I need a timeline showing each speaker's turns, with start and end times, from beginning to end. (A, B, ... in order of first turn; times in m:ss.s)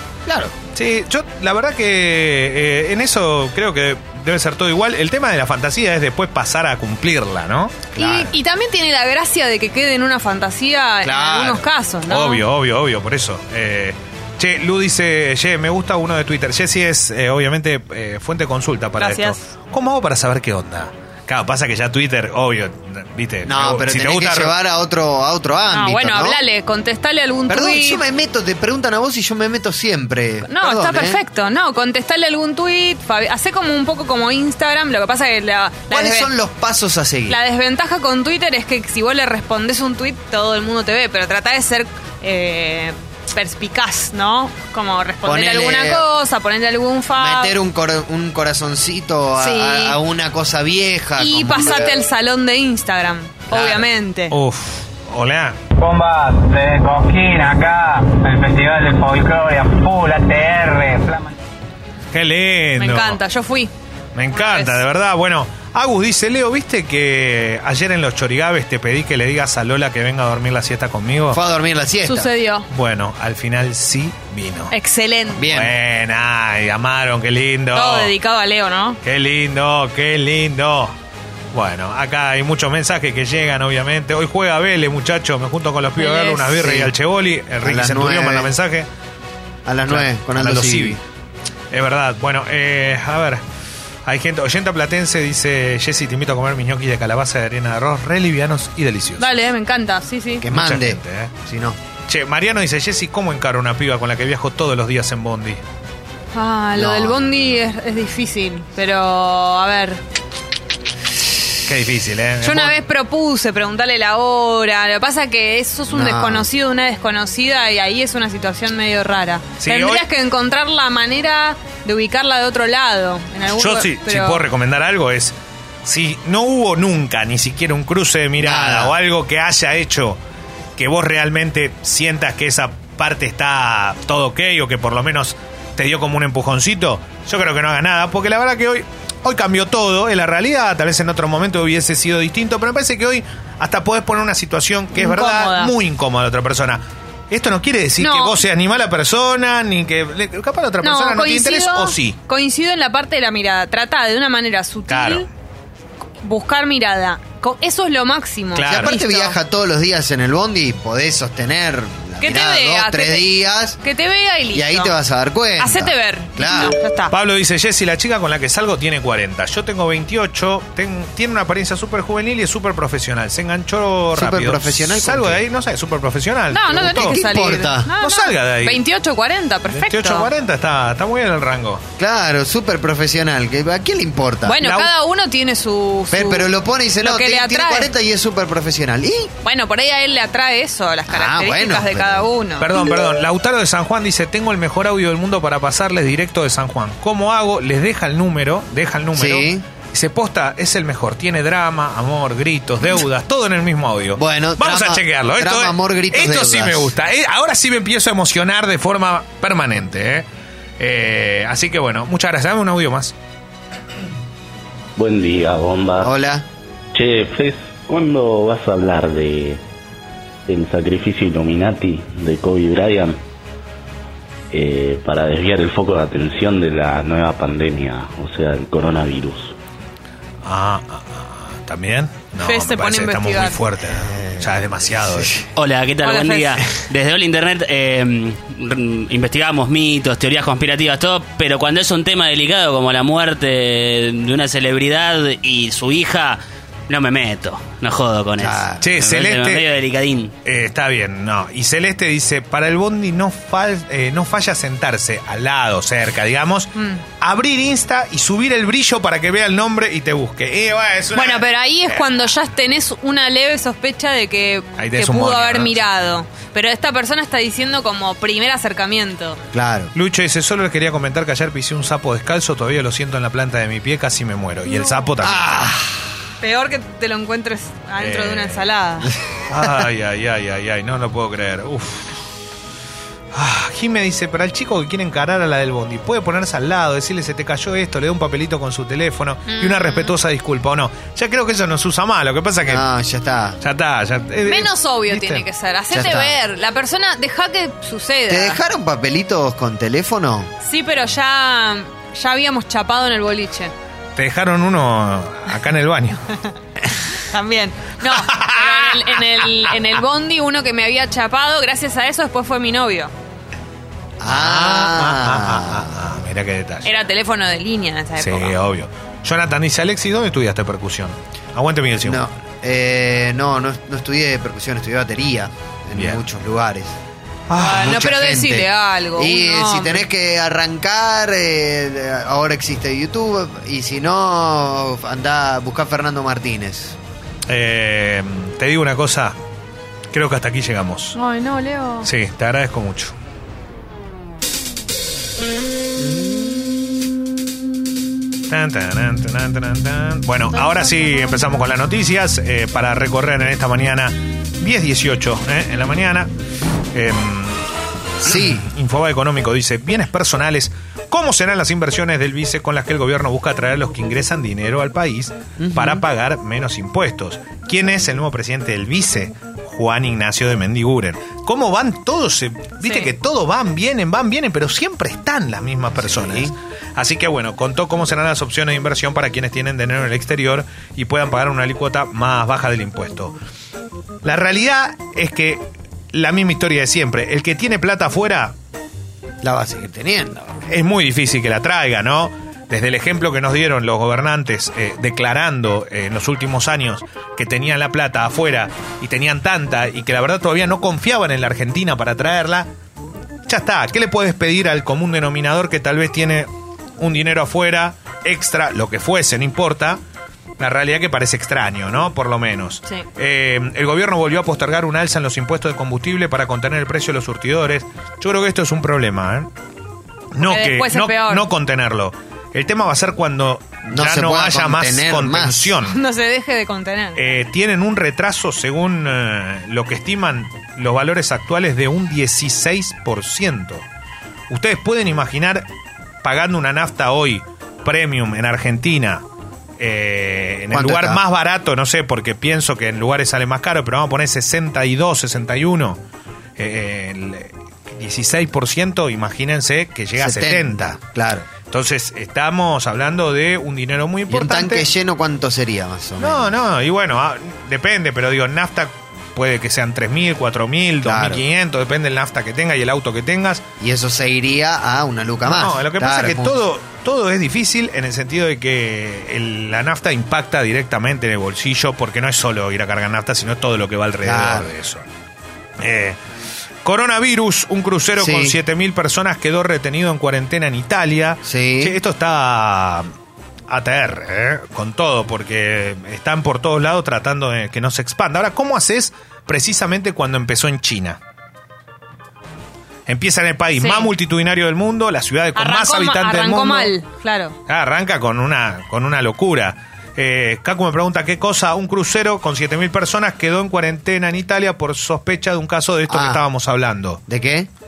0:00.3-0:00.6 A
0:00.7-0:08.0 B
0:08.0-0:08.3 A
0:08.0-0:12.4 C
0:11.0-0:11.7 A
0:12.1-0:24.6 B
0:19.0-0:19.4 C
0:23.5-0:26.4 A
0:25.7-0:28.0 C
0:27.5-0:31.2 A
0:30.4-0:36.3 C
0:35.9-0:37.4 A
0:37.3-0:47.6 C
0:45.2-0:46.1 A
0:47.2-0:52.0 A
0:49.4-0:50.0 C
0:51.2-0:54.3 C
0:53.5-0:53.9 A
0:54.3-0:55.6 B
0:55.8-1:01.4 D
1:02.1-1:03.2 B
1:02.8-1:03.7 C
1:04.2-1:11.4 B
1:04.3-1:04.8 C
1:11.3-1:12.3 A
1:12.0-1:12.7 C
1:12.7-1:14.7 B
1:14.7-1:15.4 C
1:15.4-1:15.8 A
1:15.4-1:18.1 B
1:17.7-1:19.0 C
1:19.0-1:20.9 B
1:21.5-1:28.9 B
1:26.0-1:26.6 C
1:26.6-1:26.9 A
1:27.6-1:28.5 A
1:29.7-1:31.0 A
1:29.9-1:31.0 B
1:31.7-1:33.4 B
1:34.1-1:39.4 B
1:39.2-1:40.4 C
1:40.4-1:41.8 A
1:40.5-1:41.3 B
1:42.1-1:45.6 B
1:46.3-1:50.0 C
1:46.8-1:47.4 A
1:51.7-1:52.8 B
1:52.4-2:04.4 C
1:55.9-1:56.5 A
1:59.6-2:00.0 B
2:03.5-2:10.2 B
2:08.4-2:08.9 A
2:10.8-2:32.2 B
2:25.0-2:25.7 C
2:28.0-2:28.4 C
2:30.8-2:35.3 C
2:34.9-2:35.3 B
2:36.2-2:39.4 C
2:38.6-2:38.9 B
2:38.7-2:43.8 A
2:42.2-2:44.9 C
2:44.5-2:46.8 A
2:45.6-2:47.1 C
2:47.1-2:57.2 B
2:54.2-2:55.4 A
2:56.5-3:00.3 C
2:56.7-2:57.9 A
2:58.0-2:58.8 B
2:59.7-3:01.8 B
3:02.0-3:04.6 A
3:04.4-3:07.9 C
3:04.6-3:04.9 B
3:06.1-3:09.3 A
3:09.4-3:12.7 C
3:11.1-3:12.3 A
3:12.6-3:30.2 B
3:19.2-3:19.6 A
3:24.2-3:26.9 A
3:30.8-3:33.1 B
3:35.0-3:36.1 E
3:36.0-3:36.4 A
3:37.0-3:39.6 E
3:40.5-3:43.2 E
3:44.5-3:49.5 E
3:50.4-3:55.4 B
3:52.4-3:53.6 C
3:54.0-3:55.3 A
3:55.6-4:10.3 F
3:56.0-3:56.7 C
4:08.4-4:08.9 A
4:08.8-4:09.6 B
4:10.4-4:22.3 B
4:16.8-4:17.0 C
4:21.2-4:29.4 C
4:24.8-4:25.8 B
4:29.5-4:29.9 A
4:29.9-4:35.7 B
4:34.7-4:35.1 C
4:35.2-4:36.0 A
4:36.4-4:39.1 C
4:38.0-4:38.7 B
4:39.5-4:42.2 B
4:43.3-4:52.8 B
4:49.5-4:50.1 C
4:52.7-4:53.6 A
4:53.6-4:55.4 B
4:54.4-4:58.6 C
4:55.9-4:56.3 A
4:58.3-5:00.5 A
5:00.6-5:03.7 C
5:04.2-5:06.2 B
5:07.1-5:13.1 C
5:08.0-5:09.5 B
5:14.2-5:15.9 A
5:14.2-5:16.9 B
5:16.8-5:18.6 C
5:18.2-5:22.2 B
5:22.0-5:27.0 A
5:26.0-5:26.2 B
5:27.5-5:28.0 B
5:27.6-5:30.0 C
5:27.6-5:37.0 A
5:37.5-5:39.4 B
5:40.1-5:41.2 B
5:41.2-5:42.1 C
5:42.0-5:43.1 B
5:48.5-5:56.3 B
5:50.5-5:51.2 C
5:56.9-5:57.6 B
5:58.2-6:23.4 B
5:58.2-5:58.7 A
6:05.6-6:06.0 A
6:12.8-6:13.1 C
6:16.0-6:16.5 A
6:24.2-6:28.6 B
6:29.4-6:30.6 A
6:30.7-6:42.7 B
6:43.5-6:50.0 B
6:50.6-6:59.5 B
7:00.3-7:06.0 B
7:00.4-7:01.5 C
7:03.9-7:05.8 A
7:05.8-7:07.4 C
7:07.2-7:13.8 B
7:14.5-7:15.7 B
7:16.2-7:19.2 B
7:19.8-7:26.0 B
7:20.7-7:21.2 A
7:26.6-7:31.0 B
7:30.2-7:31.5 A
7:31.7-7:34.9 B
7:34.3-7:36.5 A
7:36.2-7:43.6 B
7:41.0-7:41.4 A
7:43.8-7:46.6 A
7:45.5-7:55.0 B
7:54.2-7:54.7 A
7:55.8-7:56.2 B
7:56.8-8:03.1 B
7:58.2-7:58.6 A
8:01.5-8:02.0 A
8:03.7-8:11.2 B
8:13.1-8:16.9 B
8:13.8-8:14.1 C
8:15.6-8:17.6 C
8:17.7-8:27.2 B
8:26.1-8:26.4 A
8:27.3-8:27.7 A